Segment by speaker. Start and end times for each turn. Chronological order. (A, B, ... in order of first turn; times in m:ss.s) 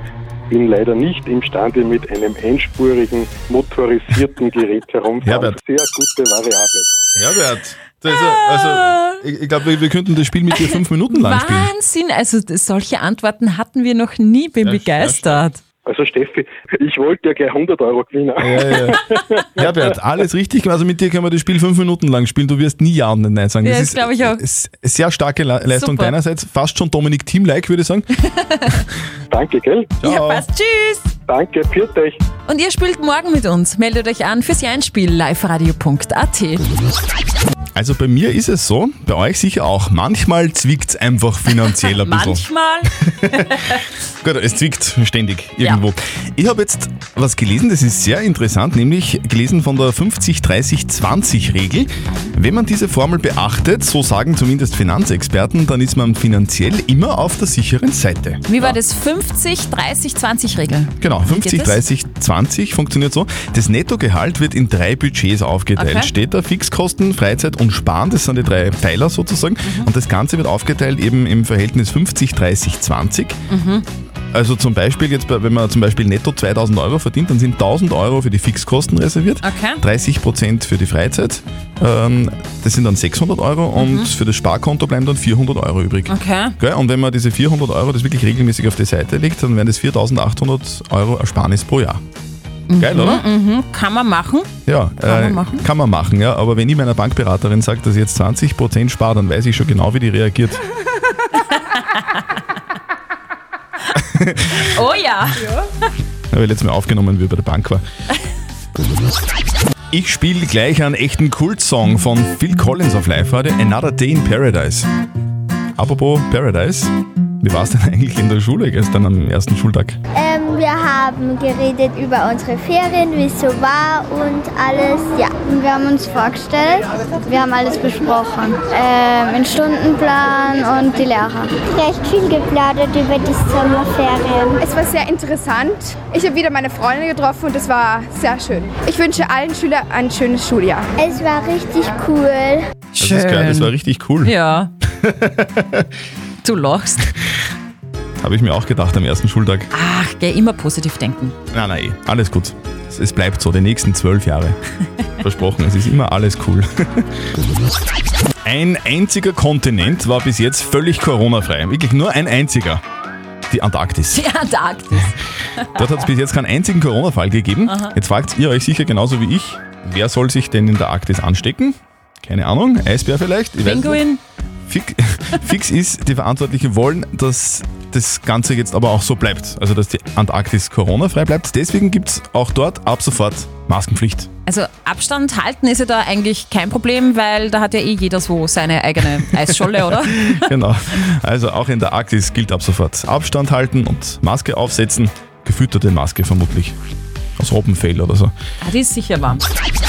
0:00.5-0:07.0 A
0:05.2-0:05.6 B
0:07.2-0:11.7 B
0:08.1-0:09.2 C
0:10.6-0:15.6 C
0:14.6-0:15.4 B
0:15.8-0:19.6 A
0:18.4-0:19.0 B
0:19.6-0:28.1 B
0:23.6-0:24.4 C
0:25.7-0:26.1 C
0:28.4-0:28.8 C
0:29.3-0:29.9 A
0:30.0-0:30.4 B
0:30.0-0:31.1 C
0:31.3-0:32.2 A
0:32.4-0:36.6 C
0:37.8-0:42.4 B
0:41.8-0:42.9 C
0:43.1-0:43.6 B
0:44.2-0:58.8 B
0:58.5-1:01.8 C
1:01.0-1:13.4 B
1:05.8-1:06.1 C
1:09.6-1:09.9 C
1:13.5-1:13.8 C
1:14.3-1:32.0 B
1:19.4-1:19.8 C
1:23.8-1:24.1 C
1:26.1-1:26.6 C
1:32.7-1:34.5 C
1:32.8-1:33.2 B
1:34.6-1:40.6 B
1:35.0-1:35.6 C
1:41.3-1:42.0 C
1:44.0-1:44.6 B
1:44.6-1:45.6 C
1:46.3-1:47.8 B
1:49.9-1:54.9 B
1:55.8-2:00.0 B
2:00.1-2:14.6 D
2:14.6-2:20.9 E
2:21.0-2:22.6 D
2:22.9-2:23.7 C
2:23.0-2:24.3 B
2:24.2-2:24.7 C
2:25.0-2:25.8 B
2:26.4-2:27.1 C
2:28.2-2:29.7 B
2:29.7-2:31.4 C
2:31.5-2:34.6 B
2:35.2-2:37.1 B
2:38.4-2:42.8 B
2:43.5-2:44.2 B
2:44.1-2:45.8 C
2:45.8-2:54.0 B
2:47.7-2:48.0 C
2:53.6-2:54.2 C
2:54.7-3:04.3 B
3:04.4-3:10.5 C
3:09.5-3:16.7 B
3:17.4-3:18.3 B
3:18.6-3:19.4 C